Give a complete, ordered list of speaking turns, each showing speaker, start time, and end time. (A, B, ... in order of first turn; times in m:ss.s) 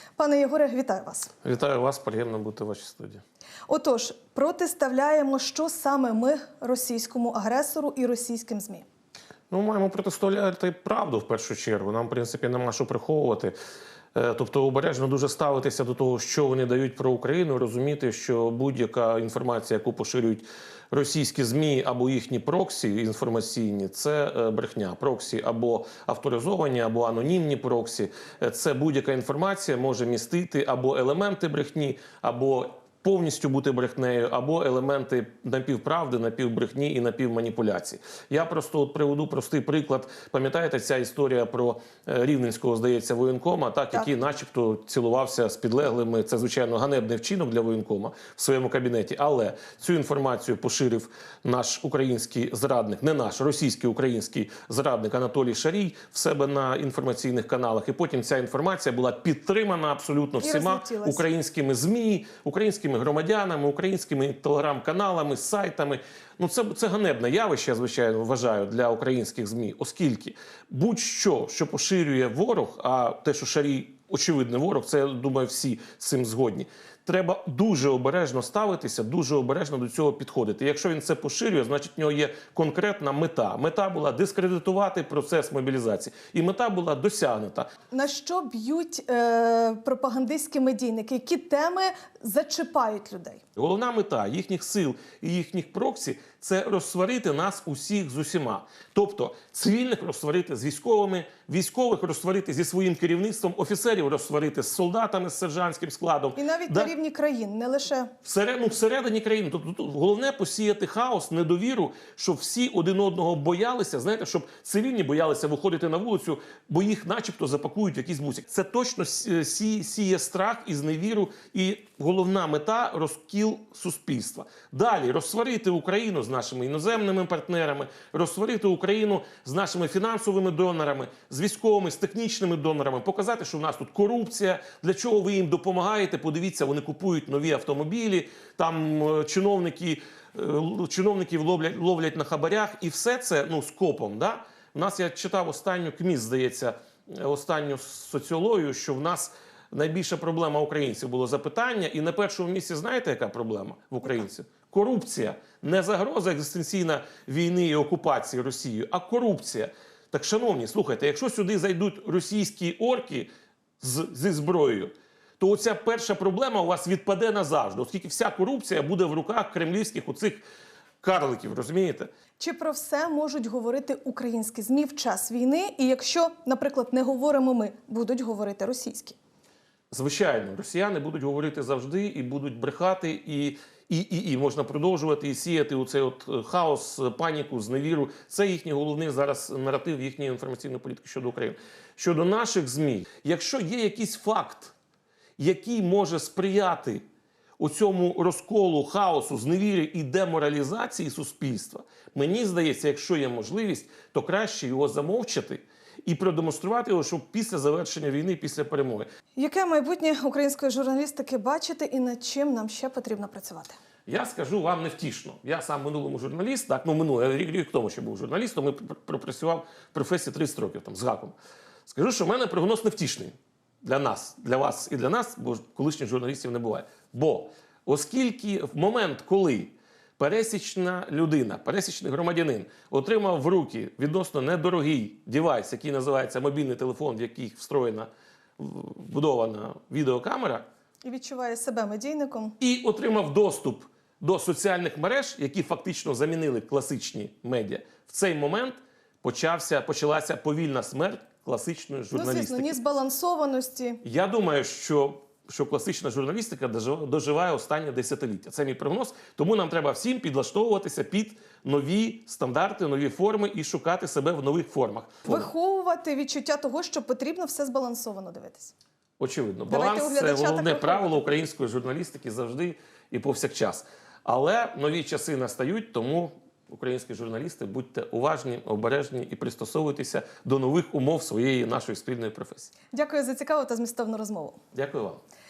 0:00.2-0:01.3 A
0:01.4-0:03.2 B
0:03.7-0:08.9 A
0:09.5-0:13.5 B
0:14.1-1:27.7 B
1:00.4-1:01.2 A
1:27.9-1:33.4 A
1:33.6-1:46.9 B
1:46.4-1:48.1 A
1:48.2-2:43.3 B
2:43.8-2:50.4 B
2:51.0-2:52.1 B
2:52.4-2:59.2 A
2:59.9-3:14.7 B
3:15.4-3:17.0 B
3:17.6-3:29.1 B
3:29.4-3:33.8 A
3:34.1-3:41.4 B
3:41.9-4:00.7 B
4:01.0-4:02.6 A
4:02.6-4:12.8 B
4:12.1-4:14.0 A
4:14.0-4:25.5 B
4:25.3-4:28.7 A
4:29.2-4:42.7 B
4:29.7-4:31.2 A
4:42.9-4:44.6 A
4:44.7-4:45.2 B